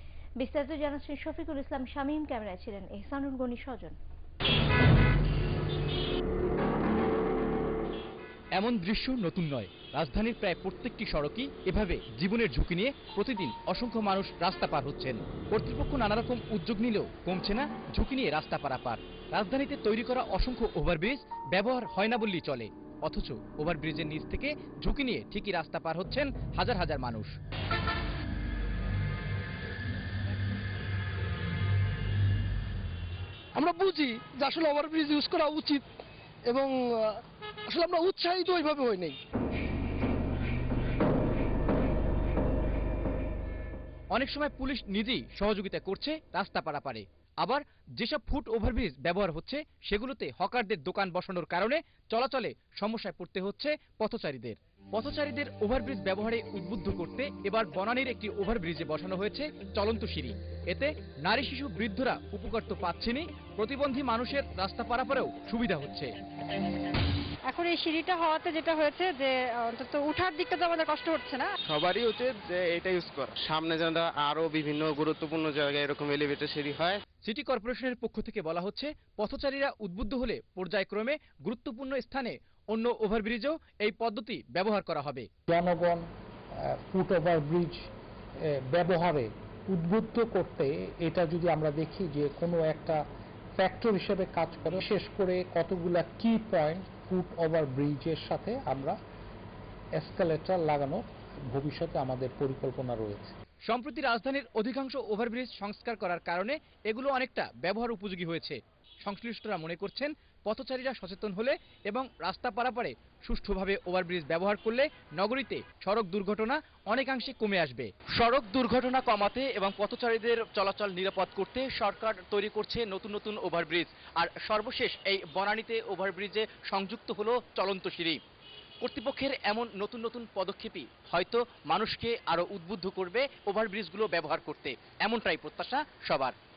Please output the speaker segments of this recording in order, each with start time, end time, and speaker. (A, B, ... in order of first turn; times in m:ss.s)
0:00.4-0:04.0 A
0:08.6-0:27.3 B
0:33.6-0:35.8 C
0:36.5-0:39.2 C
0:44.1-1:06.1 B
1:07.5-1:11.5 D
1:11.6-1:17.0 E
1:17.2-1:25.3 B
1:25.5-1:26.0 F
1:26.9-1:27.8 F
1:28.7-1:33.0 F
1:33.6-1:39.0 F
1:40.0-1:43.3 F
1:43.7-2:08.2 B
2:08.8-2:16.3 B